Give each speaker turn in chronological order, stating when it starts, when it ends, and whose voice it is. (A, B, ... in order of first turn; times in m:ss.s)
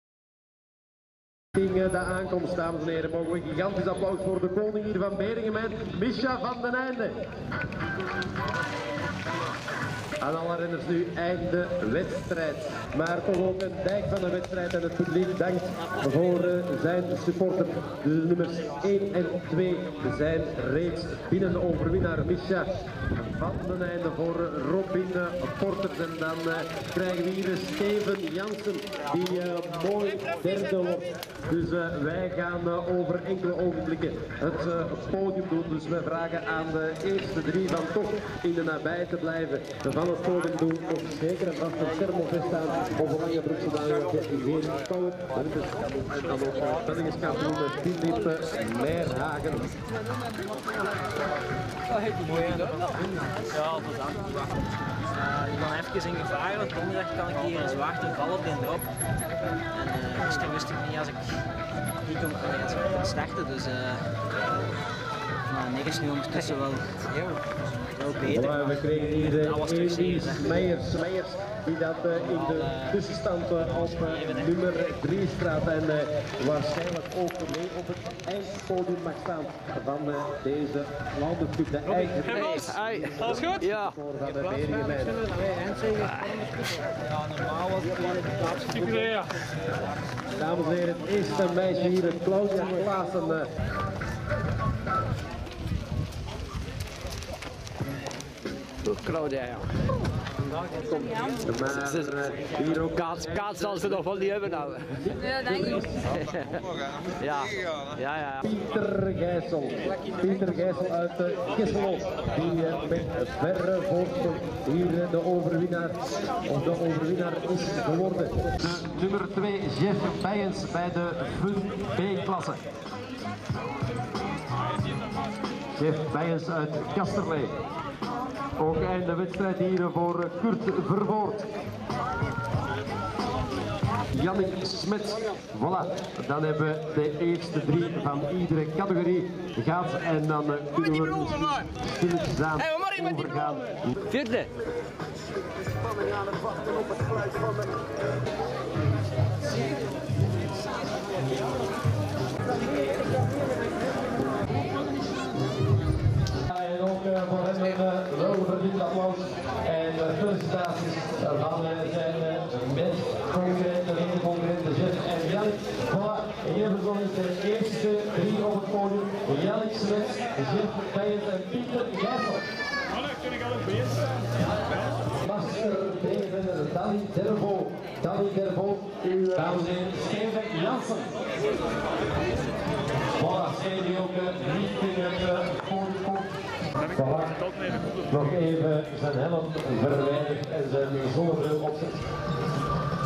0:01.5-0:07.2 A
0:10.2-0:22.7 A
0:23.3-0:49.8 A
0:52.2-0:53.0 B
0:53.5-0:54.3 B
0:55.1-0:58.9 B
0:59.7-1:01.4 B
1:02.0-1:04.3 B
1:05.4-1:07.2 B
1:07.9-1:10.6 B
1:08.2-1:25.3 A
1:12.5-1:12.9 B
1:22.3-1:24.0 C
1:25.7-1:26.5 C
1:27.5-1:29.2 B
1:28.9-1:29.2 C
1:30.3-1:33.5 A
1:38.8-1:39.7 C
1:40.7-1:48.4 C
1:41.4-1:44.3 A
1:44.9-1:46.1 A
1:48.4-2:02.6 A
2:05.7-2:07.5 A
2:08.6-2:11.5 A
2:14.1-2:24.1 A
2:24.1-2:24.5 C
2:36.5-2:52.5 A
2:55.2-3:01.1 A
3:03.2-3:06.3 A
3:06.9-3:12.0 A